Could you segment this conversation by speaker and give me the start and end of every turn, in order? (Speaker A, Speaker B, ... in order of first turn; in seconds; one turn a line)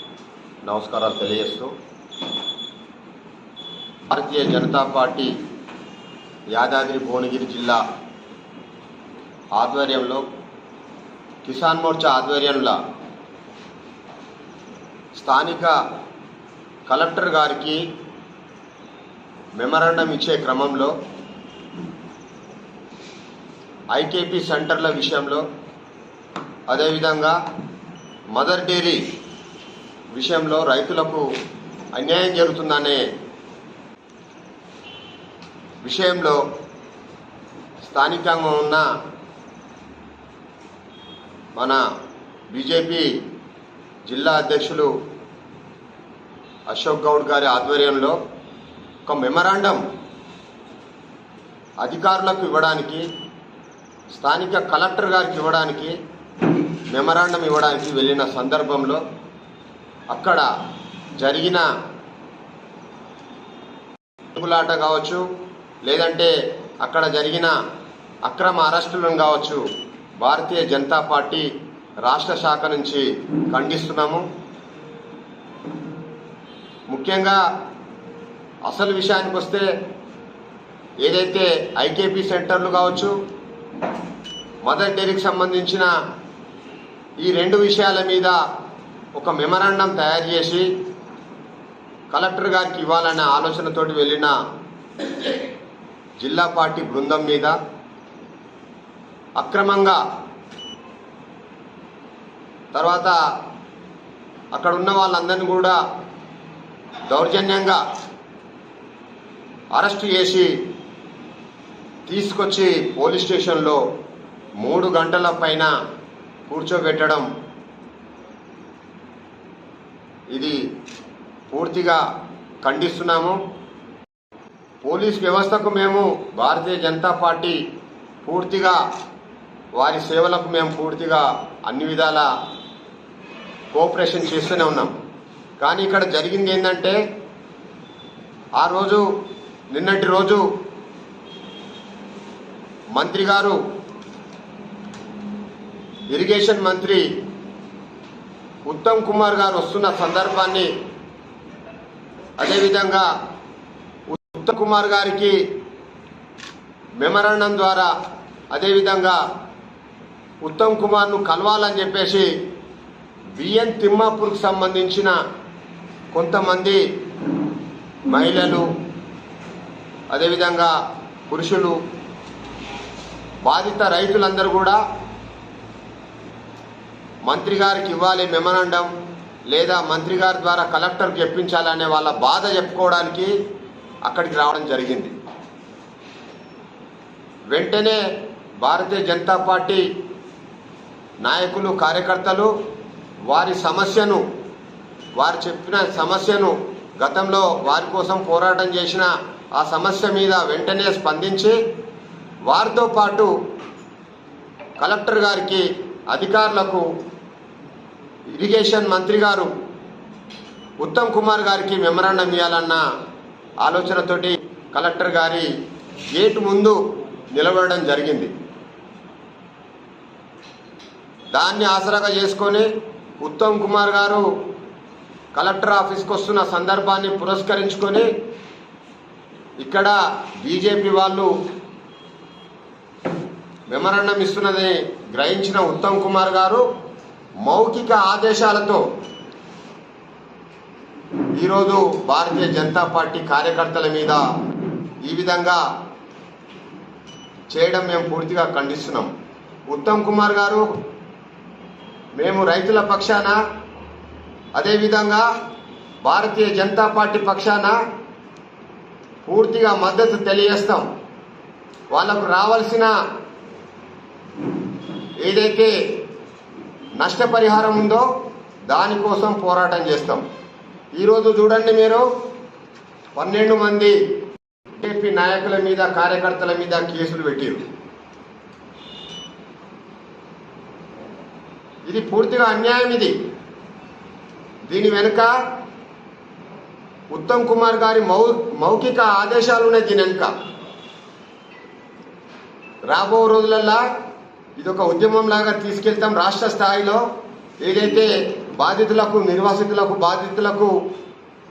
Speaker A: 0.7-1.7
Speaker A: 4.1-5.4
Speaker A: 6.5-7.8
Speaker A: 9.6-10.2
Speaker A: 11.4-12.8
Speaker A: 15.2-15.8
Speaker A: 16.9-17.9
Speaker A: 19.6-20.9
Speaker A: 23.9-25.4
Speaker A: 26.7-27.4
Speaker A: 28.3-29.1
Speaker A: 30.1-31.3
Speaker A: 31.9-33.1
Speaker A: 35.8-36.4
Speaker A: 37.8-38.9
Speaker A: 42.5-43.1
Speaker A: 44.1-44.9
Speaker A: 46.7-48.2
Speaker A: 49.1-49.8
Speaker A: 51.8-53.1
Speaker A: 54.1-56.0
Speaker A: 56.9-59.0
Speaker A: 60.1-60.5
Speaker A: 61.2-61.7
Speaker A: 64.3-65.2
Speaker A: 65.8-67.5
Speaker A: 68.2-69.7
Speaker A: 70.2-71.5
Speaker A: 72.0-74.2
Speaker A: 76.9-77.4
Speaker A: 78.7-79.7
Speaker A: 81.0-83.2
Speaker A: 84.6-85.9
Speaker A: 87.2-88.4
Speaker A: 89.2-90.7
Speaker A: 92.1-94.3
Speaker A: 96.2-97.6
Speaker A: 99.4-100.0
Speaker A: 102.7-103.2
Speaker A: 104.5-105.8
Speaker A: 107.1-107.8
Speaker A: 109.7-110.5
Speaker A: 112.1-113.8
Speaker A: 114.6-115.7
Speaker A: 116.5-117.3
Speaker A: 120.3-120.6
Speaker A: 121.5-122.0
Speaker A: 122.6-123.4
Speaker A: 124.8-127.6
Speaker A: 128.2-128.8
Speaker A: 129.8-132.3
Speaker A: 133.7-134.9
Speaker A: 135.6-137.0
Speaker A: 138.6-139.1
Speaker A: 139.7-140.5
Speaker A: 142.9-143.6
Speaker A: 146.1-147.1
Speaker A: 148.7-150.7
Speaker A: 152.4-153.1
Speaker A: 154.1-155.5
Speaker A: 157.0-157.9
Speaker A: 158.5-159.2
Speaker A: 160.4-162.3
Speaker A: 163.4-165.2
Speaker A: 166.1-166.8
Speaker A: 168.1-168.7
Speaker A: 170.1-170.8
Speaker A: 171.3-171.8
Speaker A: 173.4-174.8
Speaker A: 177.2-178.9
Speaker A: 179.5-183.3
Speaker A: 184.1-185.1
Speaker A: 187.5-188.0
Speaker A: 188.6-189.8
Speaker A: 191.2-192.5
Speaker A: 193.3-194.2
Speaker A: 195.2-201.6
Speaker A: 202.5-203.3
Speaker A: 204.8-206.9
Speaker A: 208.4-209.5
Speaker A: 210.8-212.8
Speaker A: 213.6-215.5
Speaker A: 216.1-218.3
Speaker A: 221.3-222.7
Speaker A: 223.2-224.3
Speaker A: 225.3-228.1
Speaker A: 229.6-231.3
Speaker A: 233.7-236.7
Speaker A: 237.4-238.8
Speaker A: 241.4-244.2
Speaker A: 245.0-245.6
Speaker A: 247.5-249.1
Speaker A: 249.7-250.8
Speaker A: 252.2-253.4
Speaker A: 254.6-255.3
Speaker A: 256.0-257.8
Speaker A: 259.2-260.9
Speaker A: 261.9-262.9
Speaker A: 265.2-265.8
Speaker A: 267.0-268.1
Speaker A: 268.7-270.2
Speaker A: 271.0-272.1
Speaker A: 273.1-274.0
Speaker A: 274.8-277.7
Speaker A: 281.9-283.1
Speaker A: 284.7-285.3
Speaker A: 287.1-290.3
Speaker A: 292.9-293.8
Speaker A: 294.6-297.1
Speaker A: 297.6-300.8